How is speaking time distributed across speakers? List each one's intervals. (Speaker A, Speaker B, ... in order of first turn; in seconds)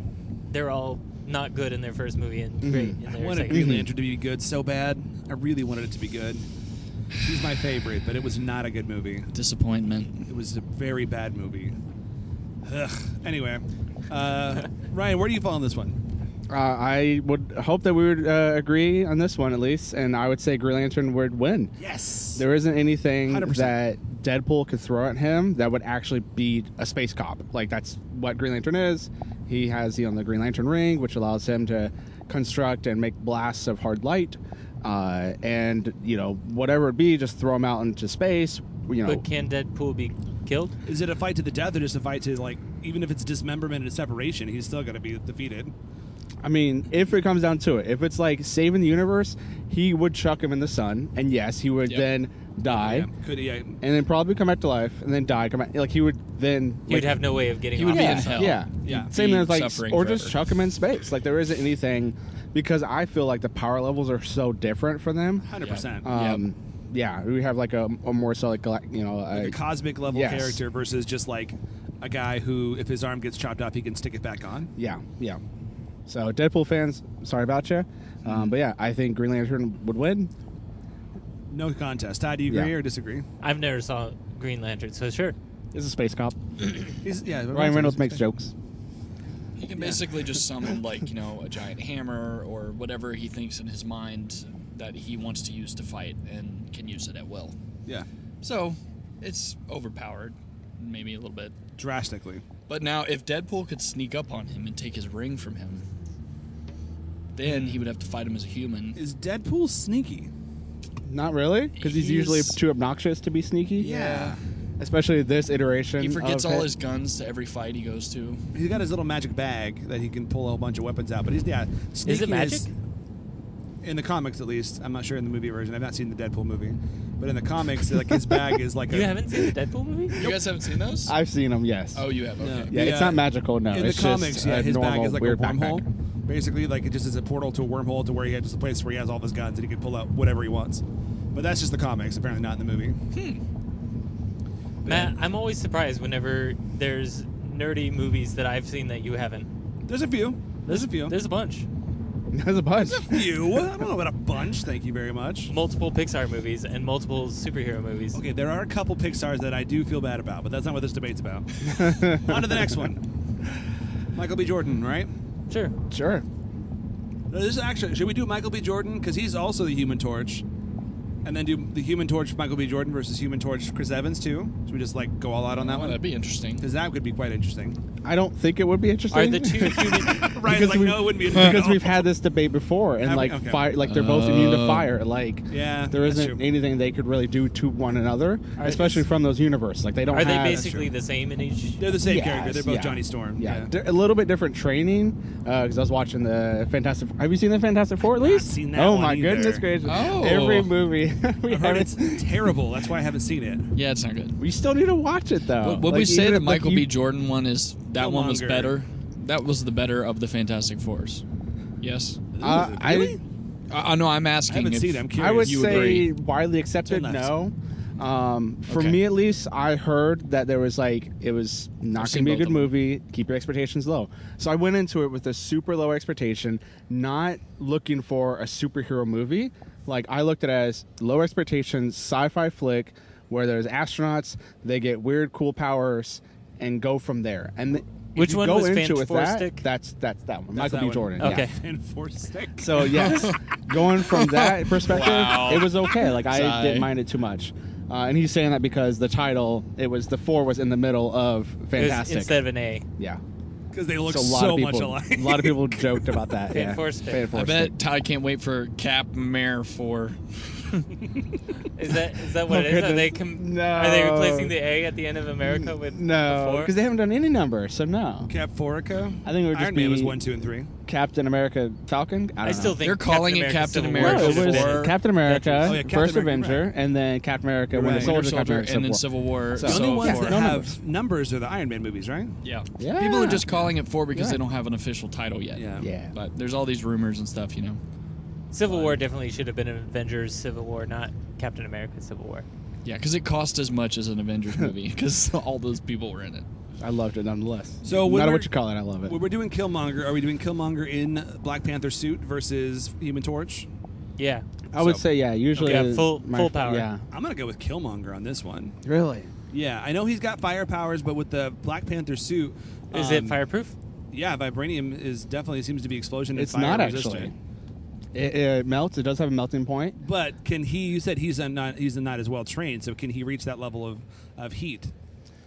Speaker A: 0.5-3.7, 39.0-40.7, 56.9-58.6, 83.4-85.3, 122.0-122.7, 128.9-130.2, 144.8-149.5, 150.7-151.7, 155.5-158.2, 165.5-165.7, 179.1-180.3, 188.6-189.0, 190.1-191.8, 238.1-239.7, 241.2-241.5, 251.7-252.8, 256.5-257.2, 261.8-266.7, 272.4-275.8, 288.5-292.4, 304.2-304.4, 305.6-306.9, 312.9-313.7
Speaker B: 2.6-3.9, 16.5-21.7, 22.3-39.2, 46.4-53.1, 53.8-57.2, 57.9-65.5, 66.0-70.6, 74.8-75.4, 76.1-80.3, 82.5-82.7, 85.7-87.0, 87.5-88.5, 111.0-114.0, 114.8-116.7, 131.1-132.0, 132.7-135.8, 152.3-153.7, 161.6-162.7, 165.9-166.2, 178.0-190.8, 192.0-202.3, 204.4-206.9, 212.4-213.2, 215.1-241.5, 242.6-252.4, 254.1-257.7, 262.4-264.5, 265.4-268.3, 269.2-270.2, 270.9-272.8, 274.0-280.7, 282.8-283.4, 284.1-284.4, 285.8-286.1, 296.8-299.1, 304.7-307.0, 308.8-309.3, 316.3-317.3, 318.1-319.9
Speaker C: 3.0-6.5, 7.2-9.3, 10.3-11.8, 12.6-16.0, 21.8-22.4, 23.3-23.8, 40.9-45.7, 52.7-53.8, 58.8-59.1, 65.4-66.1, 69.3-74.7, 81.5-83.2, 87.0-88.2, 89.8-90.0, 101.8-102.4, 107.4-107.8, 109.0-110.3, 113.8-114.3, 118.5-122.7, 123.8-129.2, 132.4-143.0, 144.8-145.1, 149.9-151.2, 152.8-155.5, 158.1-163.0, 164.1-165.1, 167.3-170.4, 171.2-176.0, 176.6-177.8, 180.1-182.0, 183.0-183.7, 185.5-186.4, 190.3-190.9, 191.8-193.7, 198.1-199.7, 201.5-203.7, 207.9-208.7, 212.3-213.2, 214.5-216.0, 216.8-217.3, 240.5-243.3, 253.7-256.3, 268.3-270.7, 275.6-276.7, 277.7-278.1, 279.6-282.4, 285.5-285.9, 297.8-298.5, 299.0-303.7, 304.7-305.0, 305.5-305.9, 307.1-308.8, 309.5-313.4, 314.1-317.3, 320.0-324.9
Speaker D: 9.3-10.3, 57.7-60.4, 65.6-66.4, 89.6-97.5, 98.4-101.5, 102.7-105.8, 107.3-109.0, 111.8-112.6, 113.8-114.4, 116.0-118.4, 130.1-131.2, 131.9-132.8, 143.1-143.4, 175.6-176.7, 183.8-184.9, 199.8-200.7, 203.7-204.4, 205.6-211.2, 211.8-212.2, 213.7-216.1, 218.7-219.0, 221.9-222.8, 242.8-246.9, 257.3-260.9, 272.8-275.0, 277.8-280.5, 282.4-287.8, 288.6-289.0, 292.8-296.4